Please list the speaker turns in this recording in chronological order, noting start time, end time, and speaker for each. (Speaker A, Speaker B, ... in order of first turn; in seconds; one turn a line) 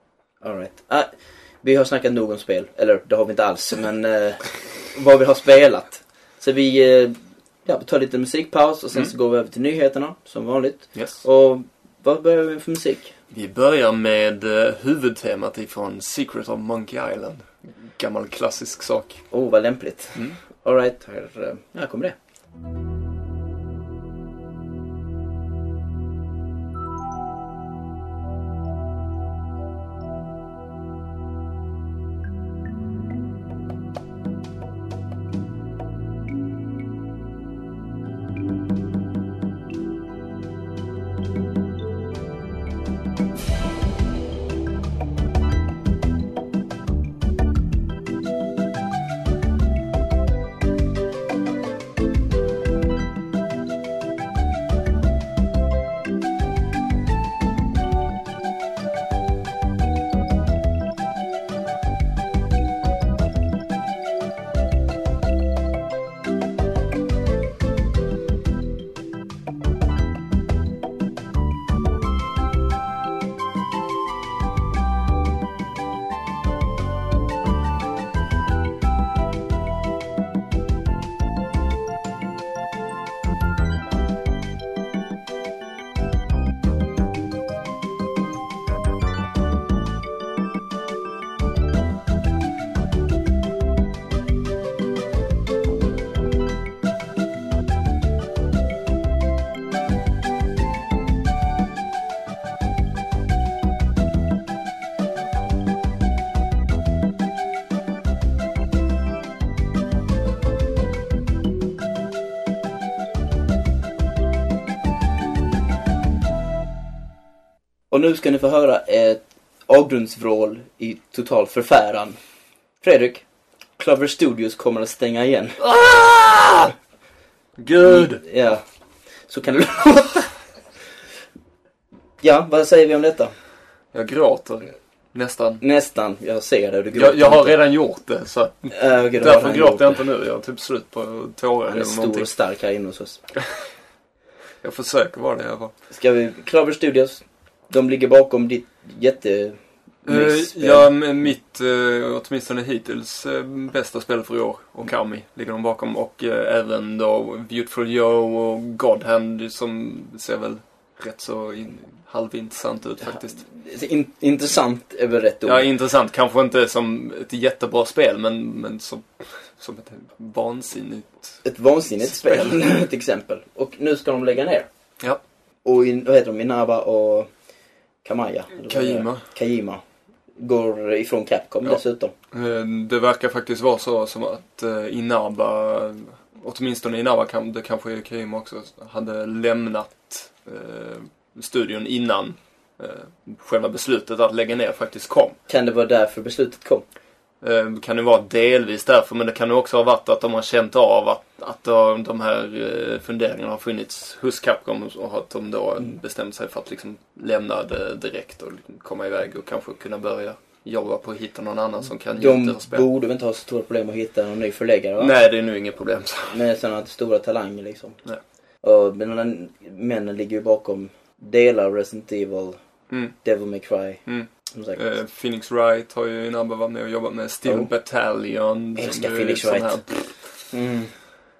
Speaker A: 0.4-1.1
Speaker A: 1.6-13.1
Speaker B: 10.9-11.2
Speaker B: 13.3-19.2
Speaker A: 19.3-22.1
Speaker A: 117.9-122.2
Speaker A: 122.8-123.2
Speaker A: 123.8-125.6
Speaker B: 125.6-126.7
Speaker B: 127.6-128.2
Speaker A: 127.8-128.6
Speaker A: 129.3-130.3
Speaker A: 132.2-133.3
Speaker B: 133.9-135.6
Speaker A: 135.6-137.6
Speaker B: 136.9-142.3
Speaker A: 138.7-140.0
Speaker A: 141.7-143.2
Speaker B: 144.6-145.7
Speaker A: 145.9-150.9
Speaker B: 150.1-163.4
Speaker A: 163.2-165.7
Speaker B: 165.4-171.4
Speaker A: 171.4-174.7
Speaker B: 172.1-172.5
Speaker A: 175.6-177.3
Speaker A: 178.0-179.8
Speaker B: 178.6-179.2
Speaker A: 180.4-182.1
Speaker B: 182.3-195.4
Speaker A: 195.5-196.8
Speaker B: 197.4-212.8
Speaker A: 212.2-215.1
Speaker B: 215.0-216.4
Speaker A: 216.3-218.0
Speaker A: 218.6-222.6
Speaker B: 222.9-223.1
Speaker A: 223.2-224.8
Speaker B: 224.1-230.2
Speaker A: 228.8-229.8
Speaker A: 230.5-230.9